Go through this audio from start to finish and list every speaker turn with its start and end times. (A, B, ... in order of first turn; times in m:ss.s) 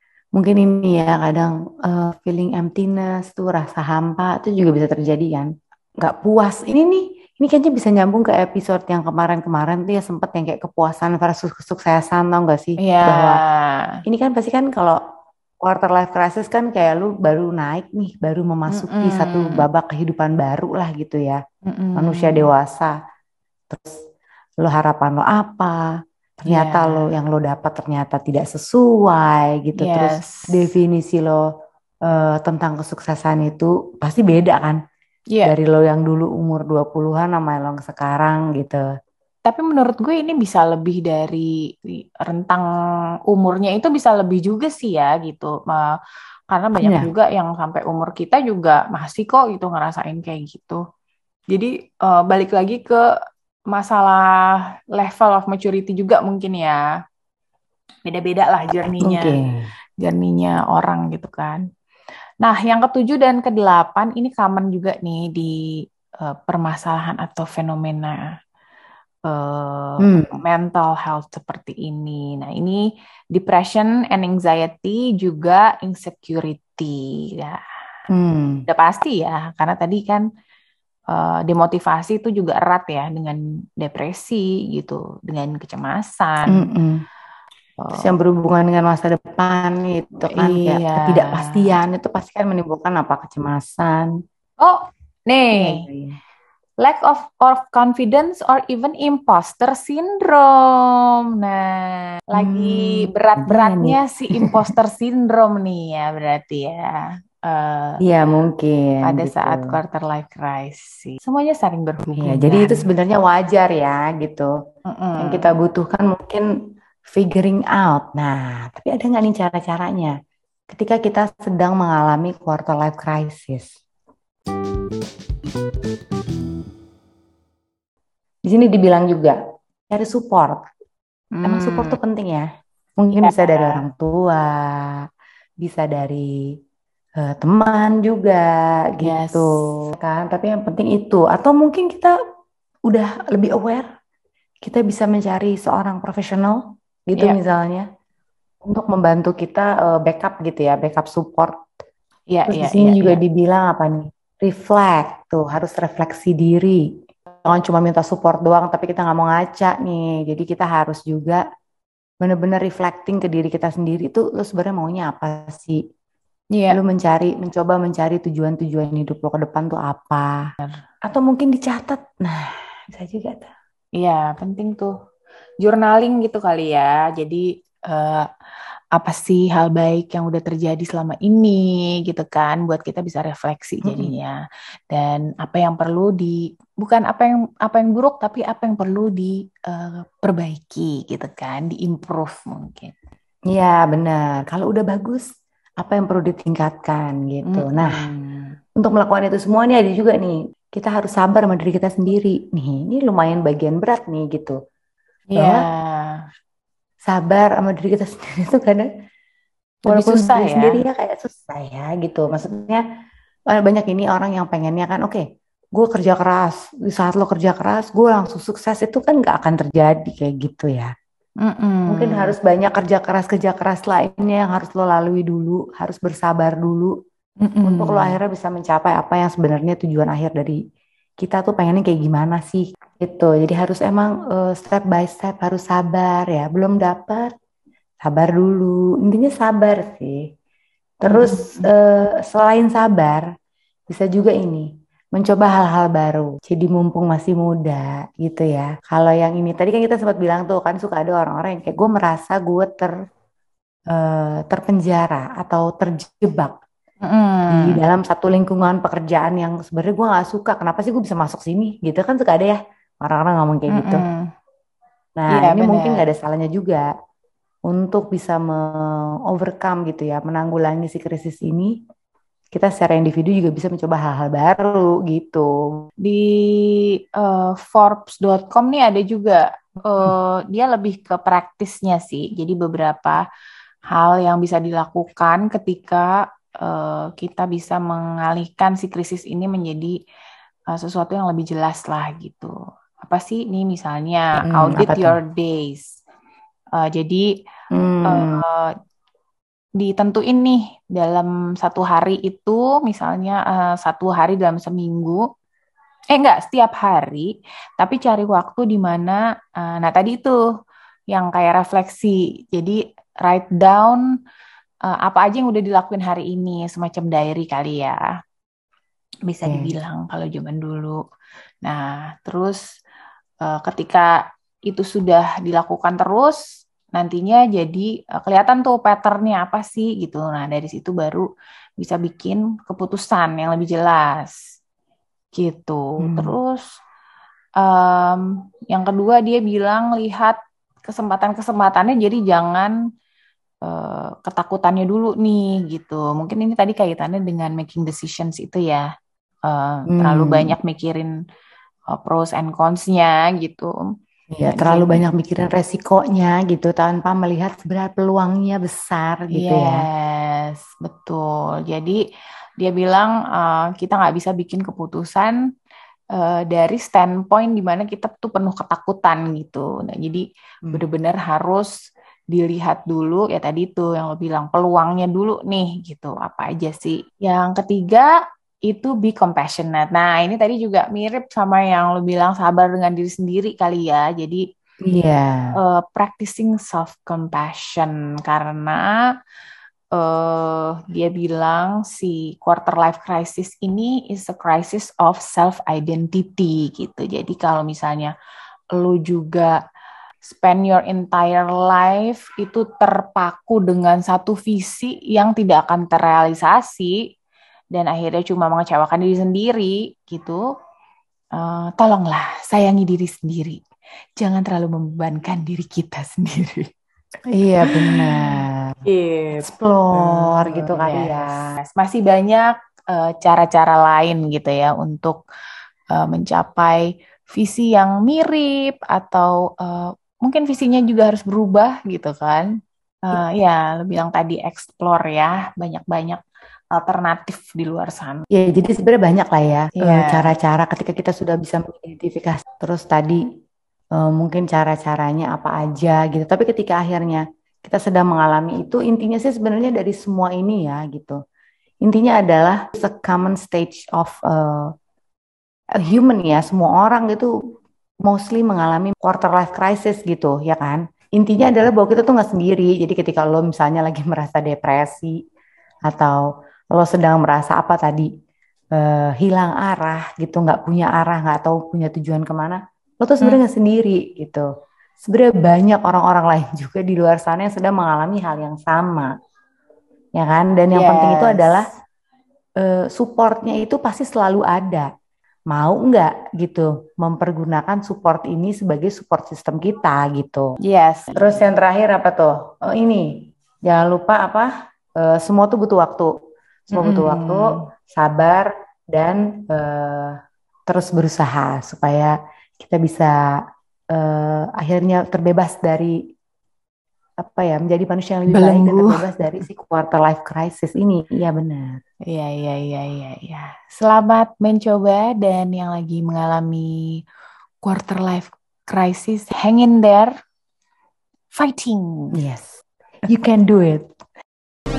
0:00.3-0:13.4 A
0:12.8-0:14.0 B
0:14.0-0:15.0 A
0:15.6-0:21.4 A
0:18.7-0:19.6 B
0:21.6-0:22.5 B
0:22.0-0:22.9 A
0:23.7-0:24.0 A
0:24.6-0:25.9 A
0:26.4-0:31.5 A
0:26.5-0:27.1 B
0:29.8-0:30.6 B
0:32.0-0:34.8 A
0:35.4-0:38.8 A
0:39.4-0:42.7 B
0:43.3-0:45.9 B
0:46.5-0:50.8 B
0:46.8-0:47.1 A
0:51.5-0:53.0 B
0:53.7-0:56.8 B
0:58.0-0:59.4 B
0:59.0-0:59.6 A
1:00.0-1:01.6 B
1:02.4-1:05.5 B
1:06.2-1:08.3 B
1:09.3-1:12.8 B
1:10.0-1:10.4 A
1:13.3-1:17.6 B
1:18.1-1:18.6 A
1:18.7-1:20.2 B
1:21.1-1:26.7 B
1:26.5-1:27.0 A
1:27.8-1:28.1 B
1:27.9-1:34.1 A
1:30.3-1:31.7 B
1:34.6-1:35.8 B
1:35.6-1:36.2 A
1:36.8-1:48.0 B
1:42.4-1:44.7 A
1:48.0-1:49.8 A
1:49.0-1:52.9 B
1:52.2-1:54.5 A
1:54.9-1:55.5 B
1:55.2-1:56.5 A
1:57.0-2:00.1 A
2:00.7-2:03.7 A
2:08.4-2:09.4 A
2:09.9-2:10.6 A
2:11.3-2:12.0 B
2:11.4-2:12.5 A
2:13.0-2:15.0 A
2:13.2-2:13.8 B
2:15.6-2:16.4 A
2:17.2-2:22.2 A
2:19.0-2:19.6 B
2:22.9-2:23.9 A
2:24.6-2:27.8 A
2:28.6-2:31.6 A
2:32.3-2:33.2 B
2:32.5-2:36.9 A
2:37.4-2:41.4 A
2:42.2-2:45.8 A
2:46.5-2:46.8 B
2:46.7-2:50.4 A
2:51.0-2:53.5 A
2:54.0-2:54.9 B
2:55.6-2:58.3 B
2:58.9-3:04.4 B
3:03.8-3:04.1 A
3:04.9-3:12.9 B
3:13.5-3:15.3 A
3:15.8-3:18.0 A
3:17.4-3:18.6 B
3:18.8-3:24.6 A
3:25.3-3:26.2 B
3:25.4-3:25.6 A
3:27.0-3:28.9 A
3:29.8-3:30.8 B
3:29.8-3:32.8 A
3:33.5-3:35.2 A
3:35.7-3:40.9 A
3:41.4-3:42.3 B
3:41.9-3:46.9 A
3:47.4-3:48.2 B
3:47.6-3:50.6 A
3:51.2-3:57.3 A
3:58.0-4:00.2 A
4:01.0-4:03.2 A
4:01.0-4:01.7 B
4:03.9-4:12.9 A
4:13.9-4:16.5 A
4:17.0-4:17.8 B
4:17.5-4:24.0 A
4:23.7-4:24.3 B
4:25.2-4:26.9 A
4:25.3-4:26.0 B
4:27.7-4:31.7 A
4:32.5-4:35.5 A
4:36.0-4:43.2 B
4:43.9-4:50.0 B
4:50.7-4:55.9 B
4:54.4-4:55.2 A
4:56.8-4:57.3 B
4:57.7-4:58.4 A
4:58.0-4:58.7 B
4:59.8-5:05.2 B
5:06.1-5:10.4 B
5:11.1-5:14.0 B
5:14.9-5:18.0 B
5:19.3-5:21.0 B
5:21.6-5:22.6 B
5:23.4-5:26.4 B
5:26.9-5:31.2 B
5:31.8-5:34.4 B
5:35.4-5:36.6 B
5:36.0-5:36.4 A
5:37.6-5:40.4 B
5:40.9-5:42.7 B
5:43.6-5:48.8 B
5:49.5-5:51.1 B
5:49.9-5:50.5 A
5:51.9-5:53.8 B
5:54.3-5:59.8 A
5:54.5-5:55.0 B
5:59.3-6:02.0 B
6:02.6-6:05.4 B
6:06.1-6:11.7 B
6:12.3-6:18.1 B
6:18.7-6:24.4 B
6:24.8-6:25.5 A
6:25.6-6:28.9 B
6:29.9-6:38.1 B
6:38.7-6:39.6 B
6:40.2-6:47.0 B
6:47.7-6:50.4 B
6:51.4-6:53.6 B
6:54.2-6:56.7 B
6:57.3-6:58.8 A
6:57.7-7:05.2 B
6:59.4-7:01.5 A
7:05.9-7:12.5 B
7:13.1-7:18.2 B
7:18.3-7:23.2 A
7:19.8-7:20.3 B
7:24.0-7:31.2 A
7:31.8-7:34.7 A
7:35.8-7:37.3 A
7:38.0-7:45.2 A
7:45.9-7:48.1 A
7:48.7-7:54.5 A
7:55.0-7:59.1 A
8:00.2-8:01.7 A
8:00.7-8:01.7 B
8:02.6-8:04.9 A
8:05.5-8:10.5 A
8:10.6-8:11.4 B
8:11.2-8:16.1 A
8:16.7-8:17.6 B
8:16.7-8:23.2 A
8:23.9-8:26.0 A
8:27.2-8:31.8 A
8:28.3-8:29.1 B
8:32.1-8:37.0 B
8:37.6-8:40.1 B
8:41.3-8:42.1 B
8:42.2-8:43.9 A